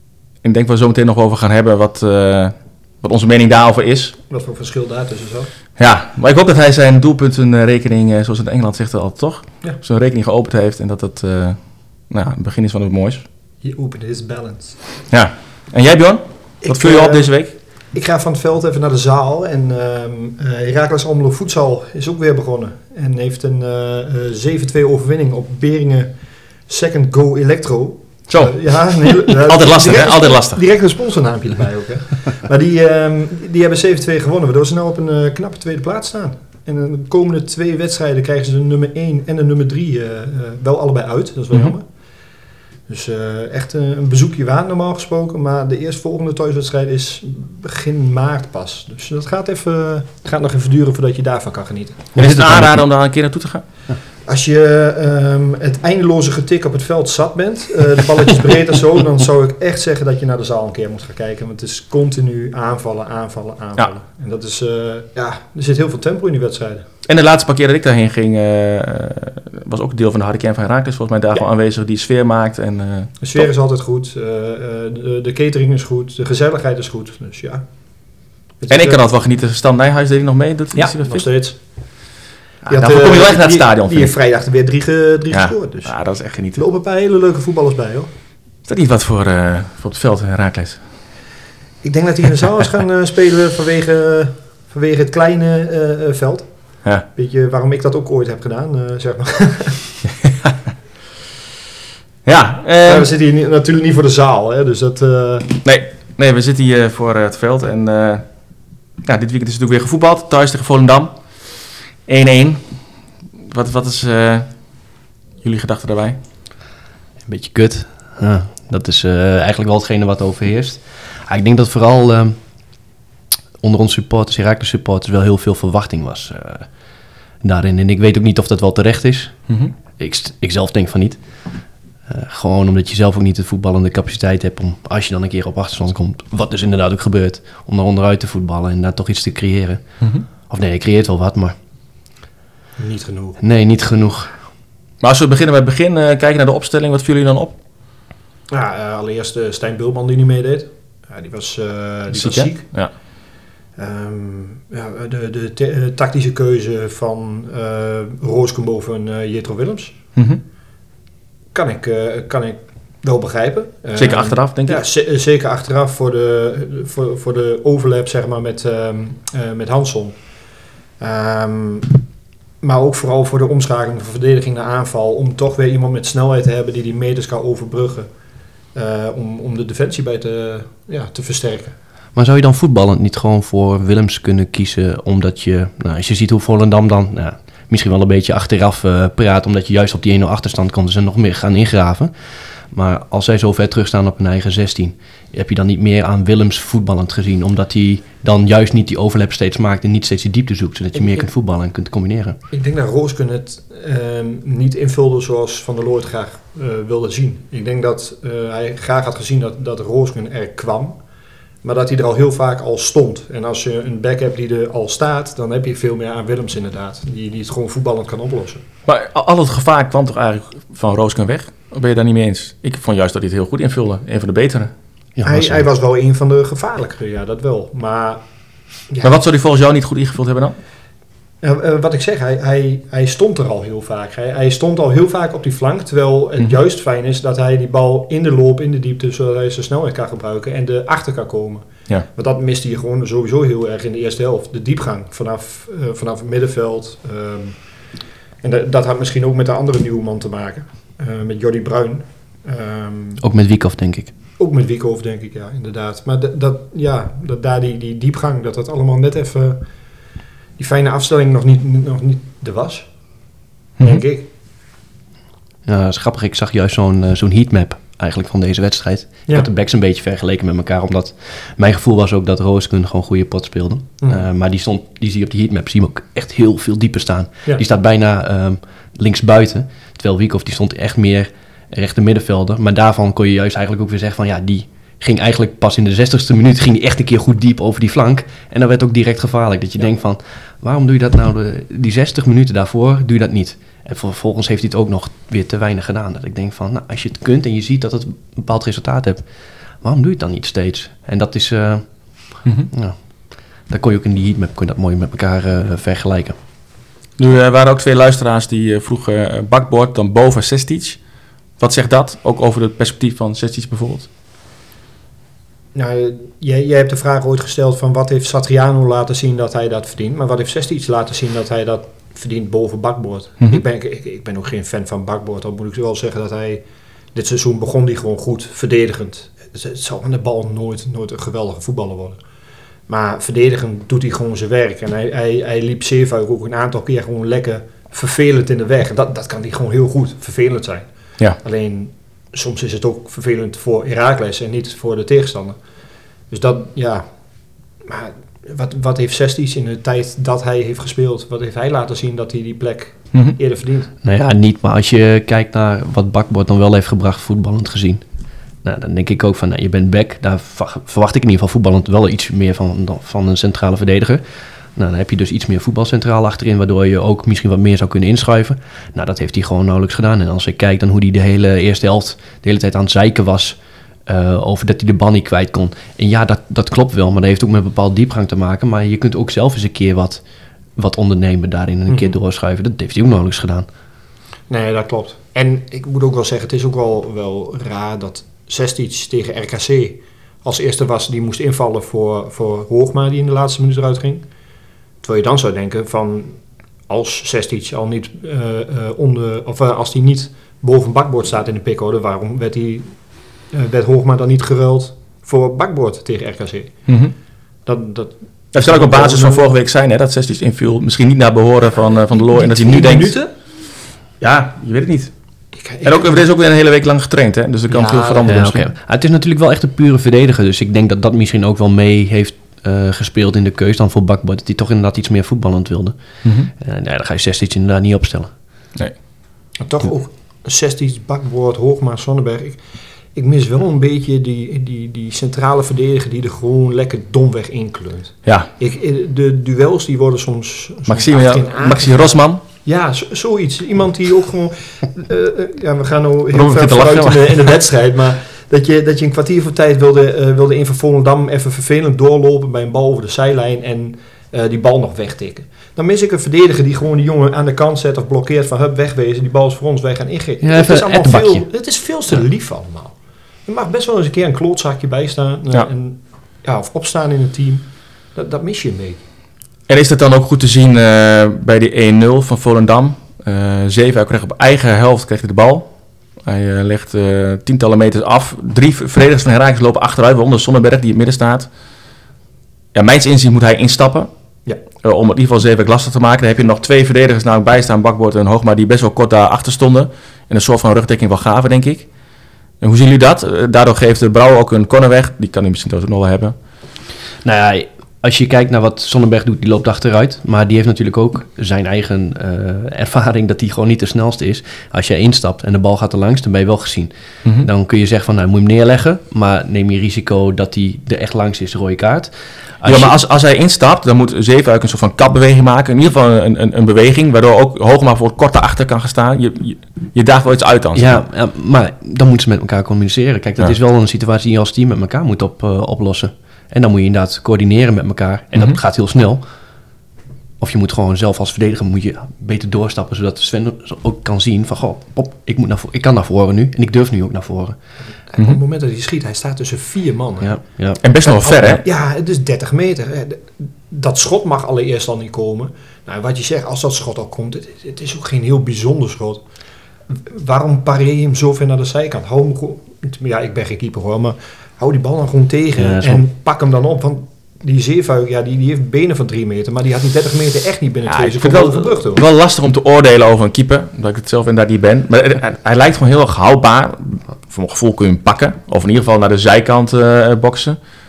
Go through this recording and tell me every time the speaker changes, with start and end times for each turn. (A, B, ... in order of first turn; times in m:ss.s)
0:00.4-0:04.2 A
0:04.3-0:05.5 B
0:05.8-0:13.2 A
0:13.6-0:14.8 B
0:15.1-0:17.5 A
0:16.6-0:41.9 B
0:28.3-0:30.6 A
0:42.9-0:52.1 B
0:52.1-0:53.6 A
0:52.2-0:52.9 C
0:54.2-1:06.8 B
1:07.0-1:13.5 A
1:13.2-1:19.0 B
1:18.7-1:21.3 A
1:20.7-1:22.1 B
1:22.6-1:24.1 A
1:22.7-1:28.1 B
1:25.3-1:26.6 A
1:28.6-1:30.9 A
1:31.8-1:40.0 B
1:42.2-1:43.1 A
1:42.8-1:45.5 B
1:45.6-1:56.2 A
1:57.2-2:02.8 C
2:03.6-2:21.5 C
2:22.8-2:23.4 B
2:23.4-2:24.4 C
2:25.0-2:27.6 A
2:28.5-2:32.9 B
2:32.1-2:32.9 A
2:33.8-2:40.0 B
2:40.2-2:40.4 A
2:41.5-2:52.0 B
2:43.9-2:44.8 A
2:52.6-3:01.8 B
3:02.1-3:22.4 C
3:20.9-3:21.3 B
3:22.5-3:31.0 B
3:31.6-3:38.6 B
3:38.9-3:44.7 A
3:45.2-3:45.6 C
3:45.2-3:48.2 B
3:48.9-3:49.2 B
3:49.0-3:50.6 A
3:51.4-4:13.2 B
4:13.2-4:14.1 C
4:14.4-4:24.3 B
4:25.7-5:06.4 C
4:34.0-4:34.3 B
5:02.4-5:02.7 A
5:07.2-5:14.1 A
5:15.7-5:32.2 B
5:32.9-5:45.6 B
5:46.3-5:53.9 B
5:54.0-5:58.1 C
5:58.6-6:20.2 C
6:20.8-6:23.7 C
6:24.5-6:34.2 B
6:35.0-6:47.0 B
6:46.9-6:47.1 A
6:47.6-6:49.5 B
6:48.5-6:53.2 A
6:52.1-6:53.3 B
6:54.2-6:55.2 A
6:55.5-6:56.2 B
6:55.8-6:58.7 A
6:57.7-6:58.3 B
6:58.2-7:08.4 C
7:06.2-7:06.5 A
7:08.7-7:09.2 A
7:09.6-7:49.0 B
7:18.2-7:18.5 A
7:20.9-7:22.4 A
7:26.3-7:27.5 A
7:40.4-7:41.5 C
7:49.7-8:01.5 A
8:02.7-8:04.1 A
8:04.8-8:11.9 A
8:12.6-8:16.4 A
8:17.2-8:33.0 C
8:32.6-8:41.0 A
8:40.7-8:49.8 C
8:50.4-8:57.6 C
8:58.0-9:00.4 B
9:00.2-9:00.8 C
9:00.8-9:01.6 A
9:01.0-9:09.2 B
9:09.9-9:22.0 B
9:15.6-9:16.0 C
9:20.9-9:30.6 A